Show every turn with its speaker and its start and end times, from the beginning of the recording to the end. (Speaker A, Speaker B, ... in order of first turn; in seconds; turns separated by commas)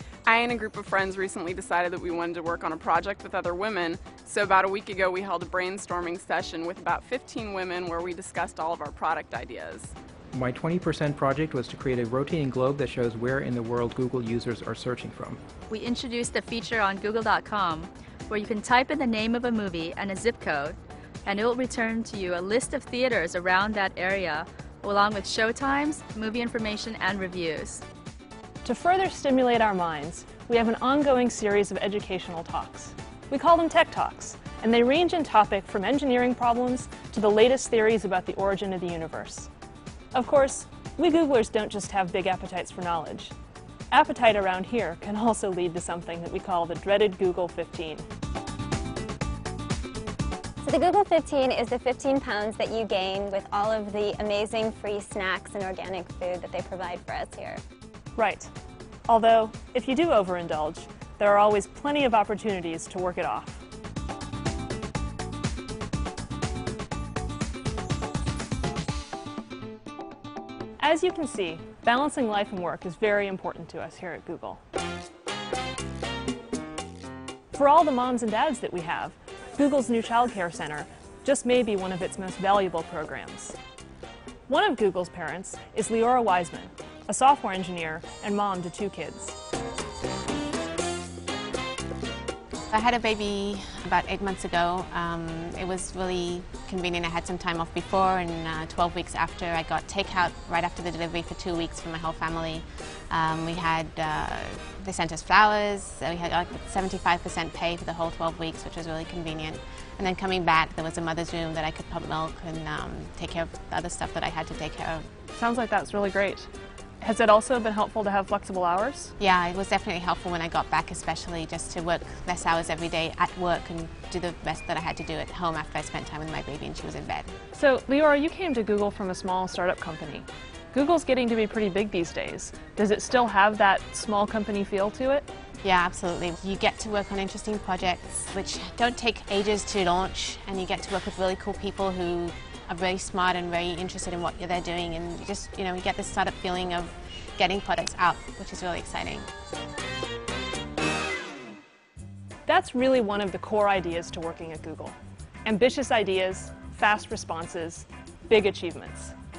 Speaker A: 0.3-9.9, Speaker B: 10.3-15.4, Speaker C: 15.7-27.8, Speaker D: 28.6-39.5, Speaker D: 40.1-43.3, Speaker D: 43.9-48.0, Speaker E: 50.6-57.6, Speaker D: 58.2-58.5, Speaker D: 59.1-63.6, Speaker D: 70.8-74.6, Speaker D: 77.5-83.6, Speaker D: 84.5-89.4, Speaker F: 92.7-115.1, Speaker D: 115.3-116.5, Speaker D: 117.0-119.1, Speaker F: 119.2-127.3, Speaker D: 127.5-135.3, Speaker F: 135.6-149.3, Speaker D: 152.5-159.1